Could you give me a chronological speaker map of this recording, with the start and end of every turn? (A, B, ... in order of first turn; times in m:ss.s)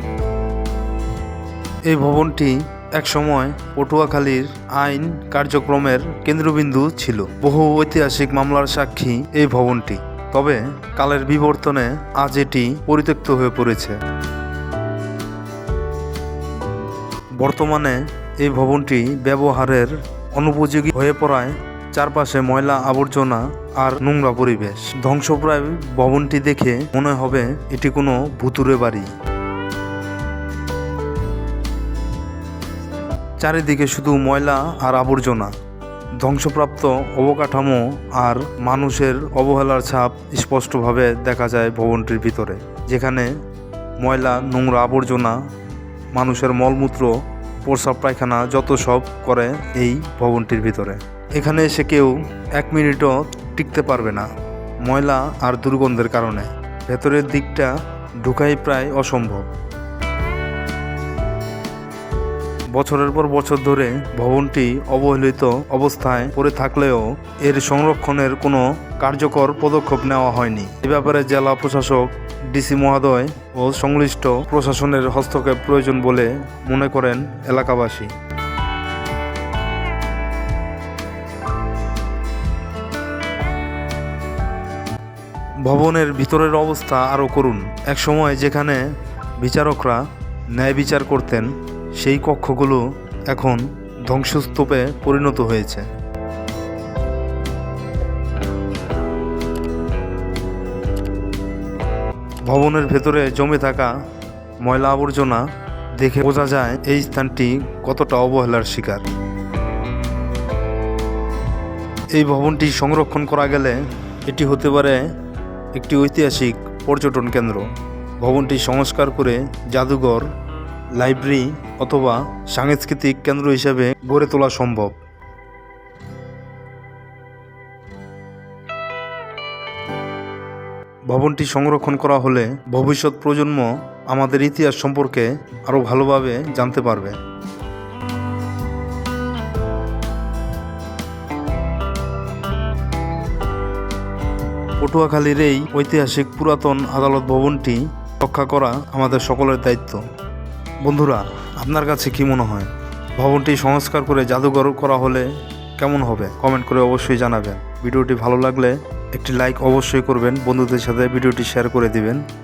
0:01.8-0:14.0 A
0:17.4-0:29.1 A
0:33.4-0:35.6 A
0:36.2-0:43.4 A
0:44.0-0:45.5 A
0:46.1-0:54.3 A
0:54.8-0:59.5 A
1:02.7-1:18.1 A
1:25.6-1:35.9 A
1:42.4-1:44.0 A
1:44.6-1:49.0 A
1:52.1-1:55.2 A
1:55.7-2:00.3 A
2:00.9-2:05.0 A
2:11.1-2:17.2 A
2:24.8-2:30.0 A
2:30.8-2:42.3 A